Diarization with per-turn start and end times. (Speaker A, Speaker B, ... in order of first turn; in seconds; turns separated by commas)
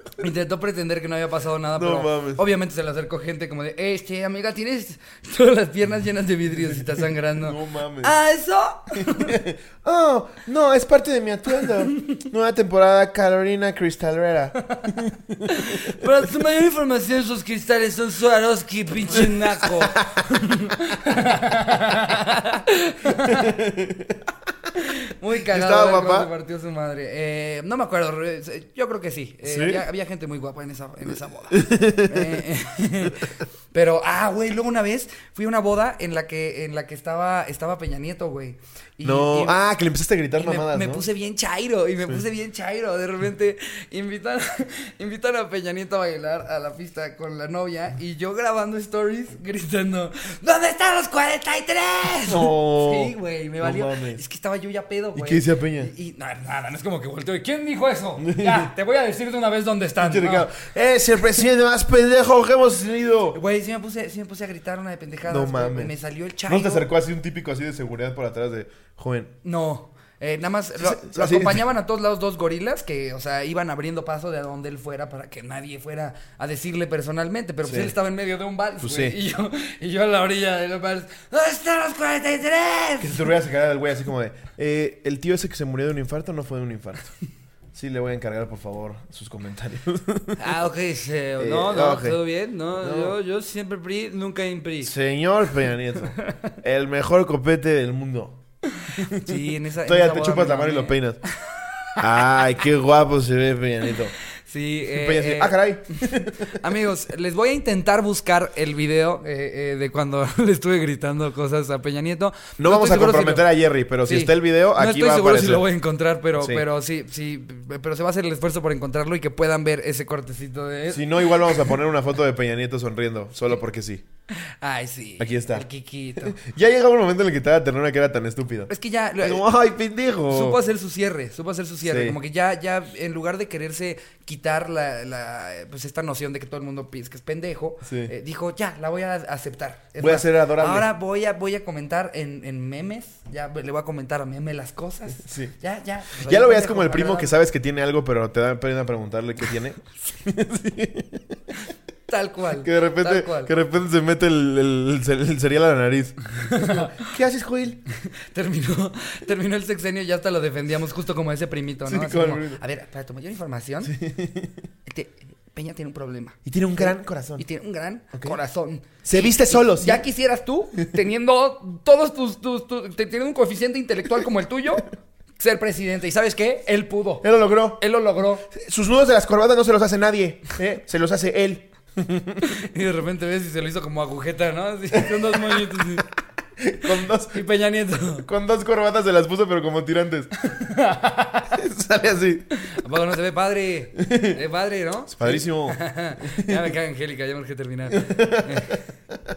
Speaker A: 0.2-9.4, Speaker B: 1.8-2.4, Speaker B: 7.4-8.2, Speaker B: 8.9-16.1, Speaker A: 14.6-23.6, Speaker B: 19.6-20.2, Speaker B: 23.1-24.2, Speaker A: 24.8-39.6, Speaker B: 25.4-26.3, Speaker B: 29.5-29.8, Speaker B: 31.5-32.4, Speaker B: 39.0-41.0, Speaker A: 40.4-60.5, Speaker B: 52.2-54.2, Speaker B: 55.1-55.9, Speaker B: 58.2-58.7, Speaker B: 60.0-63.4, Speaker A: 63.3-66.9, Speaker B: 65.3-65.9, Speaker B: 66.5-69.3, Speaker A: 69.4-83.3, Speaker B: 70.8-71.6, Speaker B: 77.6-77.9, Speaker B: 78.8-79.2, Speaker B: 83.0-87.1, Speaker B: 87.7-90.5, Speaker A: 90.4-94.9, Speaker B: 91.4-92.2, Speaker B: 92.8-93.2, Speaker B: 94.8-98.4, Speaker A: 96.1-96.6, Speaker A: 98.7-101.0, Speaker B: 99.0-101.2, Speaker A: 101.5-101.9, Speaker B: 102.0-104.2, Speaker A: 104.5-105.6, Speaker B: 104.9-106.6, Speaker A: 106.1-113.5, Speaker B: 112.6-115.7, Speaker A: 114.1-121.8, Speaker B: 116.4-116.6, Speaker B: 120.9-124.0, Speaker A: 124.4-126.4, Speaker B: 125.2-125.7, Speaker B: 126.2-128.7, Speaker A: 128.7-129.5, Speaker B: 129.2-130.6, Speaker A: 130.3-147.3, Speaker B: 131.8-132.2, Speaker B: 137.9-138.1, Speaker B: 140.0-140.9, Speaker B: 145.2-145.5, Speaker B: 146.2-151.3, Speaker A: 152.1-153.5, Speaker B: 152.6-157.8, Speaker A: 156.3-157.1, Speaker A: 158.0-163.9, Speaker B: 161.8-162.6, Speaker B: 163.8-164.6, Speaker A: 164.9-178.5, Speaker B: 166.5-167.4, Speaker B: 169.0-170.0, Speaker B: 177.2-177.8, Speaker B: 178.5-182.6, Speaker A: 182.4-186.1, Speaker B: 185.0-185.6, Speaker B: 186.6-187.4, Speaker A: 186.9-188.3, Speaker B: 188.2-190.3, Speaker A: 190.4-191.6, Speaker B: 191.5-192.5, Speaker A: 192.5-198.8, Speaker B: 194.0-194.4, Speaker B: 195.1-196.7, Speaker B: 197.9-198.8